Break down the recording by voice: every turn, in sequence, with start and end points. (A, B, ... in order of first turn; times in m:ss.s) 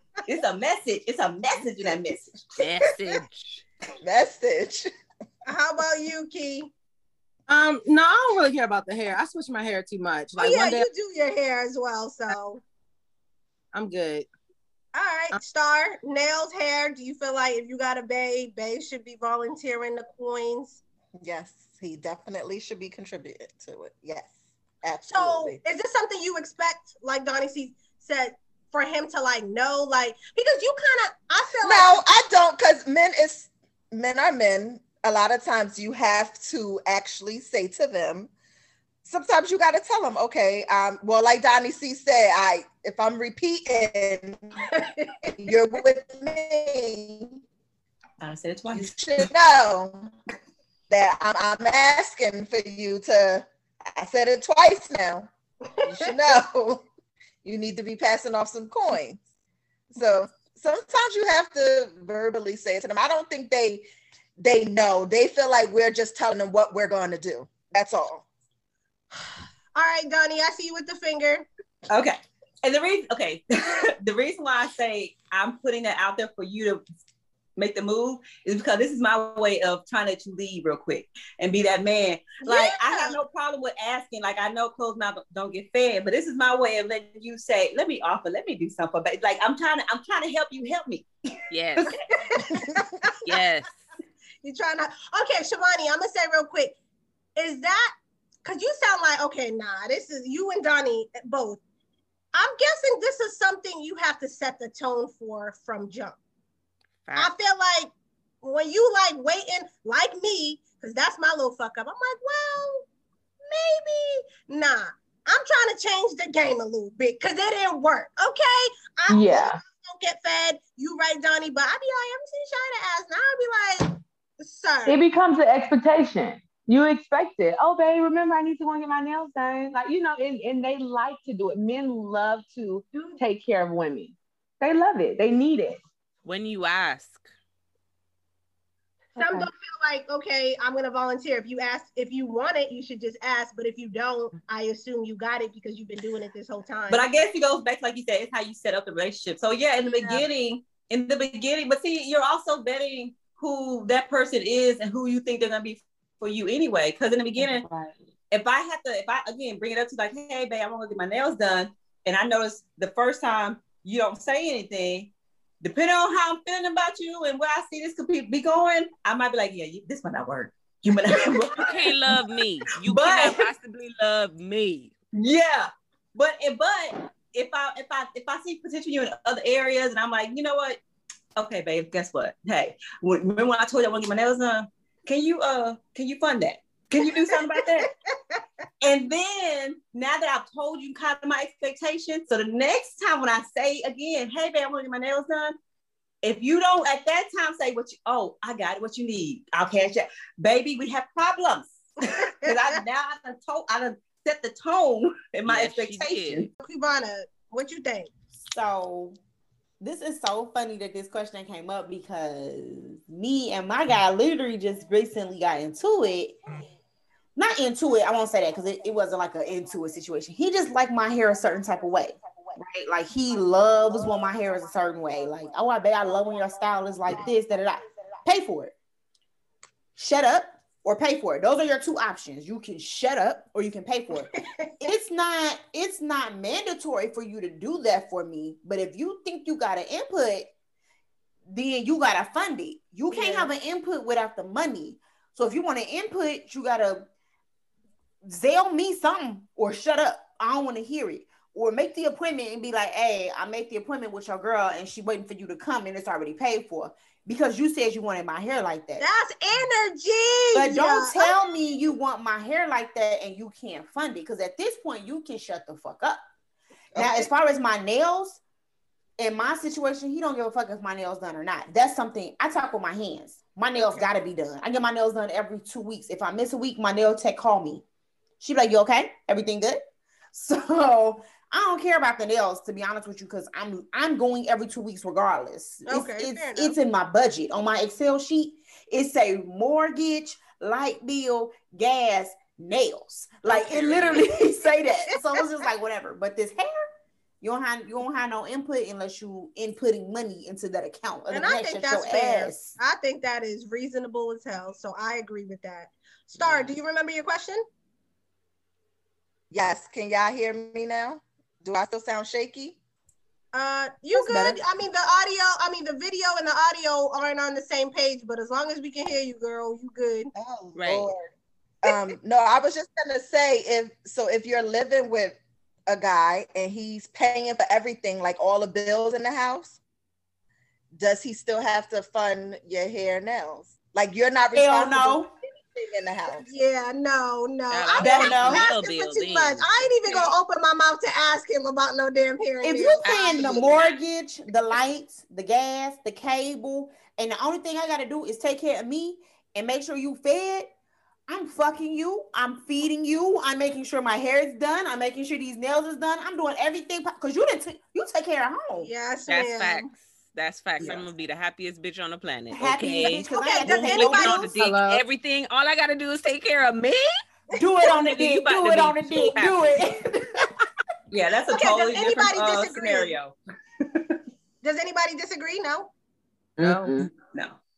0:00.2-0:02.5 A
0:02.6-0:03.6 B
0:04.0-0:04.9 C
0:05.4-0:06.7 D
0:07.5-0:10.9 E
0:10.4-0:12.6 D
0:13.7-0:14.3 E
0:14.9-0:20.8 D
0:21.2-0:25.6 C
0:25.1-0:32.0 D
0:31.6-0:38.3 C
0:39.0-0:44.6 C
0:44.7-0:45.1 D
0:45.2-0:47.4 C
0:48.2-0:49.3 A
0:48.7-0:50.1 C
0:50.9-0:55.3 C
0:55.8-0:56.1 D
0:55.8-0:56.8 C
0:57.4-0:59.2 C
0:59.9-1:03.8 C
1:04.4-1:08.2 C
1:09.7-1:11.5 D
1:11.9-1:16.8 A
1:17.6-1:31.1 A
1:22.4-1:23.2 D
1:31.5-1:31.9 B
1:31.9-1:33.4 D
1:33.2-1:33.8 B
1:34.4-1:36.8 D
1:37.4-1:41.6 D
1:42.3-1:46.2 D
1:47.0-1:47.3 B
1:47.2-1:52.8 D
1:53.5-2:05.0 D
1:59.1-1:59.6 F
2:04.8-2:15.8 F
2:12.9-2:13.2 D
2:16.2-2:17.3 B
2:19.2-2:19.5 F
2:19.2-2:27.0 D
2:26.9-2:37.6 A
2:29.8-2:30.2 D
2:37.4-2:37.9 F
2:38.3-2:45.1 A
2:45.6-2:52.1 A
2:51.6-2:54.9 B
2:52.7-2:53.4 A
2:55.1-3:00.8 A
3:01.4-3:07.9 A
3:07.0-3:08.4 D
3:08.8-3:15.5 A
3:16.2-3:26.5 A
3:22.2-3:22.8 D
3:25.5-3:26.5 B
3:26.6-3:28.1 D
3:28.4-3:29.2 G
3:29.8-3:36.4 G
3:37.4-3:48.7 G
3:50.0-4:00.5 G
3:54.4-3:54.9 D
4:01.5-4:07.1 G
4:03.1-4:03.5 D
4:08.2-4:19.0 G
4:19.0-4:21.5 D
4:20.5-4:26.2 G
4:26.9-4:27.3 C
4:26.9-4:28.4 G
4:29.2-4:37.8 G
4:38.4-4:56.8 G
4:45.9-4:46.7 D
4:53.5-4:54.4 D
4:53.5-4:54.2 B
4:57.4-5:02.8 G
5:01.3-5:07.6 D
5:06.4-5:06.7 B
5:09.5-5:12.8 C
5:13.5-5:20.3 D
5:14.1-5:14.6 G
5:20.3-5:21.3 C
5:20.7-5:21.1 B
5:21.8-5:29.8 C
5:30.9-5:36.4 C
5:34.5-5:35.3 G
5:36.4-5:43.7 D
5:37.7-5:40.3 B
5:38.0-5:38.4 A
5:38.0-5:38.7 G
5:42.6-5:50.7 G
5:43.0-5:43.9 B
5:51.3-5:58.9 G
5:58.8-5:59.9 D
5:59.3-6:07.1 B
6:02.5-6:04.6 G
6:03.3-6:04.4 D
6:04.0-6:05.0 E
6:07.5-6:10.5 G
6:07.8-6:09.8 B
6:11.1-6:13.3 A
6:11.5-6:13.2 D
6:13.9-6:14.2 A
6:14.6-6:15.9 D
6:16.6-6:17.1 F
6:16.6-6:16.9 E
6:17.1-6:17.6 A